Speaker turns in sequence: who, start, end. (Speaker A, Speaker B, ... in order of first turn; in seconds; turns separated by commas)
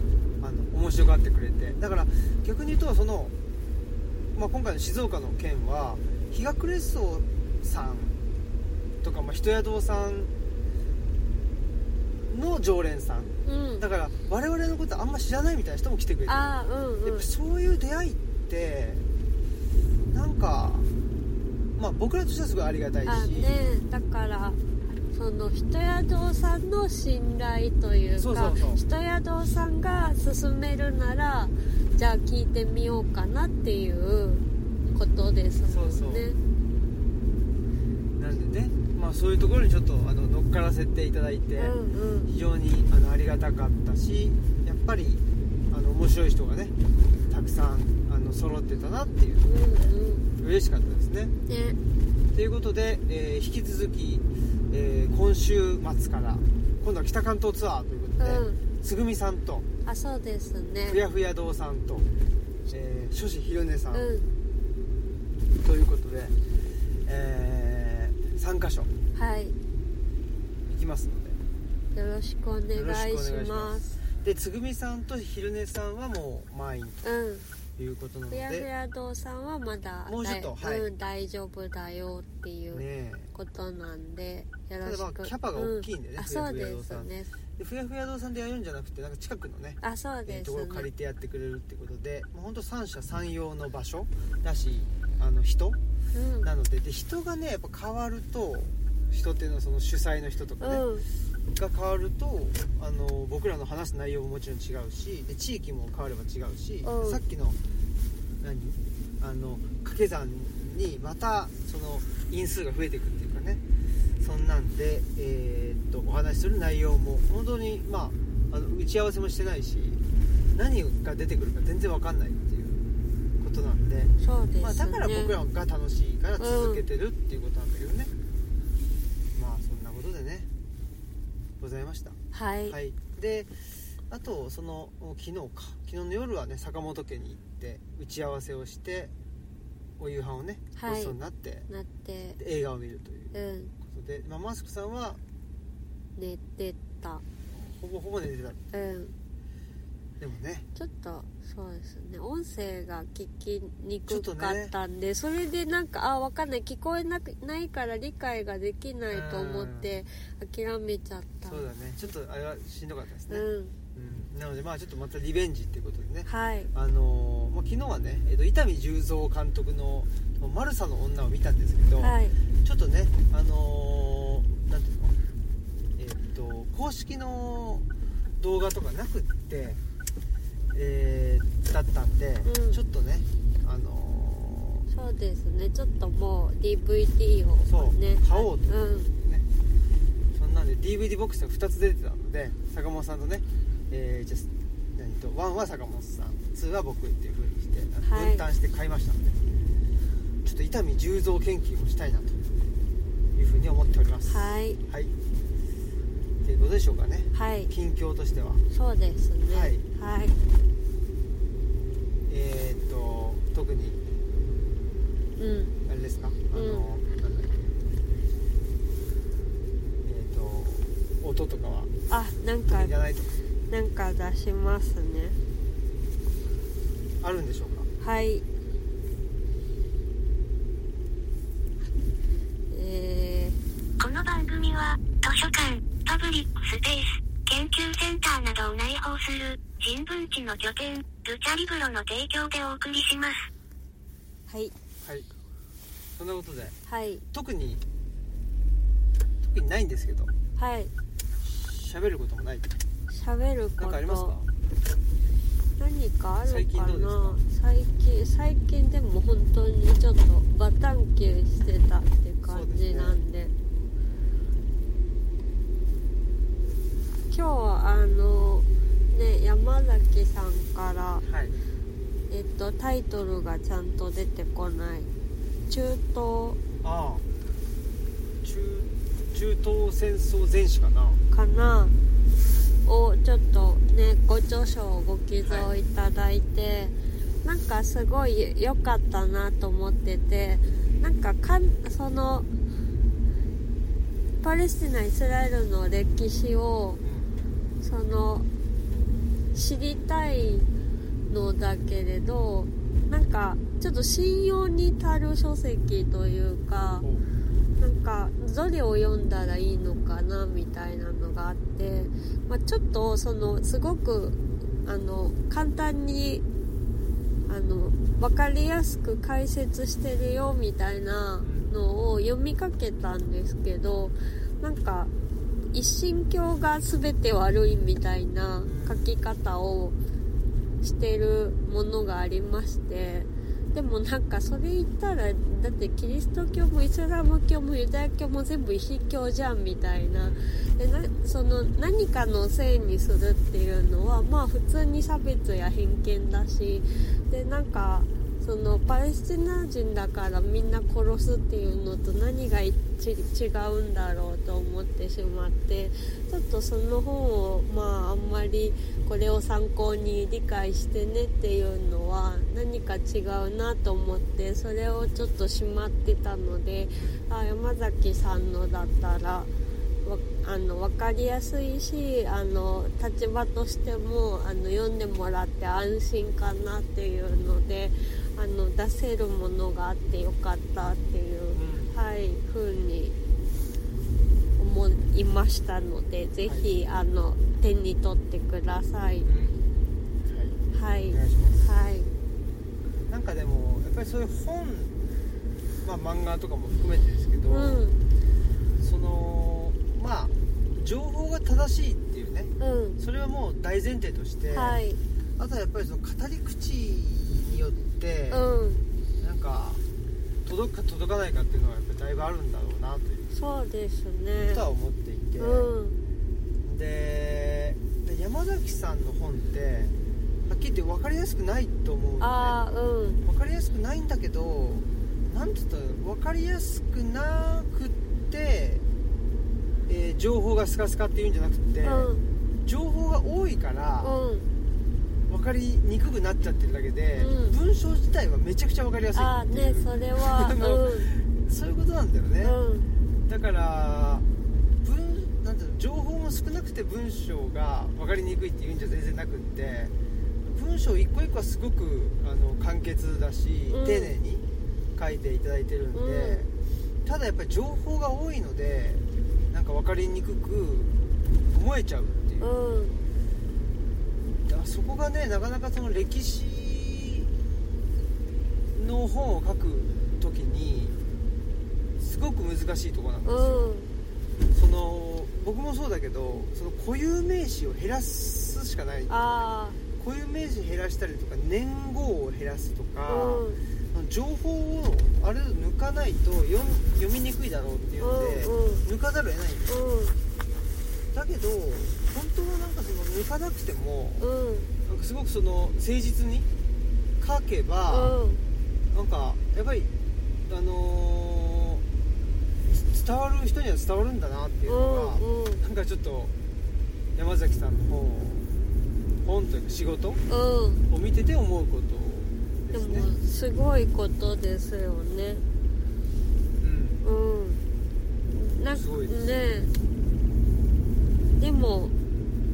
Speaker A: 0.4-3.3, Speaker A: 4.3-8.2, Speaker A: 9.0-10.3, Speaker A: 12.3-16.5, Speaker B: 13.4-13.8, Speaker B: 16.3-17.3, Speaker A: 17.0-19.1, Speaker A: 20.1-20.9, Speaker A: 21.8-23.5, Speaker B: 23.1-24.6, Speaker B: 25.1-36.4, Speaker A: 28.2-28.8, Speaker A: 35.7-36.3, Speaker A: 38.2-41.7, Speaker B: 41.6-42.3, Speaker A: 42.3-46.7, Speaker A: 47.3-51.3, Speaker B: 49.4-50.3, Speaker B: 51.5-51.8, Speaker A: 52.3-59.6, Speaker B: 58.2-58.6, Speaker B: 59.8-61.0, Speaker A: 60.9-62.1, Speaker A: 62.7-64.1, Speaker B: 63.9-64.3, Speaker A: 65.6-66.4, Speaker A: 67.0-68.9, Speaker B: 69.1-69.5, Speaker A: 70.7-71.4, Speaker B: 71.9-73.9, Speaker A: 72.7-77.0, Speaker B: 77.0-77.5, Speaker A: 77.8-78.7, Speaker B: 78.3-87.3, Speaker A: 80.0-80.9, Speaker A: 82.7-83.3, Speaker A: 84.8-95.8, Speaker B: 89.8-90.9, Speaker B: 96.1-96.5, Speaker A: 96.4-100.8, Speaker B: 100.6-101.0, Speaker A: 101.5-107.6, Speaker B: 106.8-107.2, Speaker A: 108.4-113.6, Speaker A: 114.2-120.0, Speaker A: 120.5-122.8, Speaker A: 123.4-128.1, Speaker B: 124.2-125.4, Speaker B: 126.4-126.8, Speaker A: 129.3-130.5, Speaker A: 131.6-132.2, Speaker B: 132.3-132.8, Speaker A: 132.7-133.5, Speaker A: 134.1-139.1, Speaker A: 140.0-141.7, Speaker B: 140.8-141.2, Speaker B: 141.7-142.4, Speaker A: 142.4-145.2, Speaker B: 143.3-143.7, Speaker B: 146.2-147.2, Speaker A: 147.5-148.6, Speaker B: 148.7-149.1, Speaker A: 150.2-150.7, Speaker B: 150.8-161.6, Speaker A: 154.1-154.7, Speaker A: 159.1-159.9, Speaker A: 161.4-175.2, Speaker B: 163.3-163.8, Speaker B: 166.2-166.7, Speaker B: 172.0-172.4, Speaker A: 176.0-177.8, Speaker A: 178.4-179.8, Speaker A: 180.7-184.9, Speaker B: 182.4-182.8, Speaker B: 184.9-189.1, Speaker A: 187.7-189.4, Speaker A: 190.3-199.4, Speaker B: 198.1-198.4, Speaker A: 200.4-202.4, Speaker A: 203.3-205.1, Speaker B: 204.3-204.8, Speaker A: 206.4-208.6, Speaker B: 207.3-207.7, Speaker B: 208.7-210.4, Speaker A: 209.5-209.8, Speaker A: 212.3-214.0, Speaker B: 215.4-215.8, Speaker A: 215.9-217.7, Speaker B: 216.5-216.9, Speaker A: 220.0-221.9, Speaker B: 222.1-222.9, Speaker A: 222.7-223.3, Speaker B: 223.7-225.4, Speaker A: 227.2-227.9, Speaker B: 228.0-228.4, Speaker B: 232.7-233.6, Speaker C: 234.0-243.5, Speaker B: 244.5-244.7, Speaker A: 246.2-246.8, Speaker B: 246.9-247.2, Speaker A: 247.3-247.8, Speaker A: 249.4-250.3, Speaker B: 250.6-250.9, Speaker A: 251.4-252.7, Speaker B: 253.1-254.3, Speaker A: 253.8-254.5, Speaker B: 255.8-263.5, Speaker A: 256.4-257.4, Speaker A: 262.4-263.2, Speaker B: 267.3-271.2, Speaker A: 271.2-271.6, Speaker B: 272.3-275.1, Speaker B: 275.7-276.6, Speaker A: 276.8-277.2, Speaker A: 278.4-281.2, Speaker B: 281.3-282.0, Speaker B: 282.8-292.5, Speaker A: 285.4-285.7, Speaker B: 294.4-297.0, Speaker A: 297.0-297.3, Speaker B: 297.8-298.4, Speaker B: 299.5-300.7, Speaker B: 301.3-307.1, Speaker B: 307.8-316.4, Speaker B: 317.5-325.1, Speaker A: 321.4-321.7, Speaker B: 325.7-329.9, Speaker A: 328.6-329.1, Speaker B: 330.8-369.5, Speaker A: 340.2-340.5, Speaker A: 366.9-367.2, Speaker B: 370.0-383.1, Speaker A: 381.5-381.9, Speaker B: 384.6-389.3, Speaker A: 386.4-386.7, Speaker A: 389.2-389.6, Speaker A: 390.2-391.7, Speaker B: 390.7-392.1, Speaker A: 393.1-394.9, Speaker A: 395.8-397.8, Speaker B: 397.5-398.0, Speaker A: 398.8-404.8, Speaker B: 402.6-403.0, Speaker B: 404.5-405.0, Speaker A: 405.4-408.4, Speaker B: 408.3-408.8, Speaker A: 409.2-409.8, Speaker A: 410.4-413.3, Speaker B: 413.3-414.6, Speaker A: 414.4-415.8, Speaker B: 415.4-416.0, Speaker A: 416.6-419.9, Speaker A: 420.5-422.6, Speaker B: 422.2-423.2, Speaker A: 423.2-428.8, Speaker A: 429.9-432.1, Speaker B: 431.8-432.2, Speaker A: 432.6-434.2, Speaker B: 434.0-434.5, Speaker A: 435.3-442.6, Speaker B: 437.2-437.6, Speaker B: 439.1-441.1, Speaker B: 442.4-442.9, Speaker A: 443.3-444.3, Speaker A: 444.8-449.9, Speaker A: 450.4-456.5, Speaker B: 453.7-454.1, Speaker B: 455.9-456.4, Speaker A: 457.0-460.9, Speaker A: 461.5-462.5, Speaker B: 462.4-463.0, Speaker A: 464.5-467.3, Speaker A: 468.7-471.0, Speaker A: 472.0-473.7, Speaker B: 473.2-473.9, Speaker A: 474.5-489.8, Speaker B: 479.1-479.8, Speaker B: 483.1-483.6, Speaker B: 488.0-488.9, Speaker B: 489.7-490.2, Speaker A: 491.1-494.2, Speaker B: 494.2-494.7, Speaker A: 494.8-496.5, Speaker A: 497.2-498.2, Speaker B: 497.9-498.4, Speaker A: 498.9-499.9, Speaker A: 500.4-501.8, Speaker A: 502.7-506.3, Speaker B: 504.7-505.6, Speaker A: 507.1-508.5, Speaker A: 509.2-510.2, Speaker B: 510.3-510.8, Speaker A: 510.9-513.1, Speaker B: 512.7-515.4, Speaker A: 516.6-517.0, Speaker B: 517.0-517.6, Speaker B: 518.3-519.7, Speaker A: 518.7-519.5, Speaker B: 521.4-521.9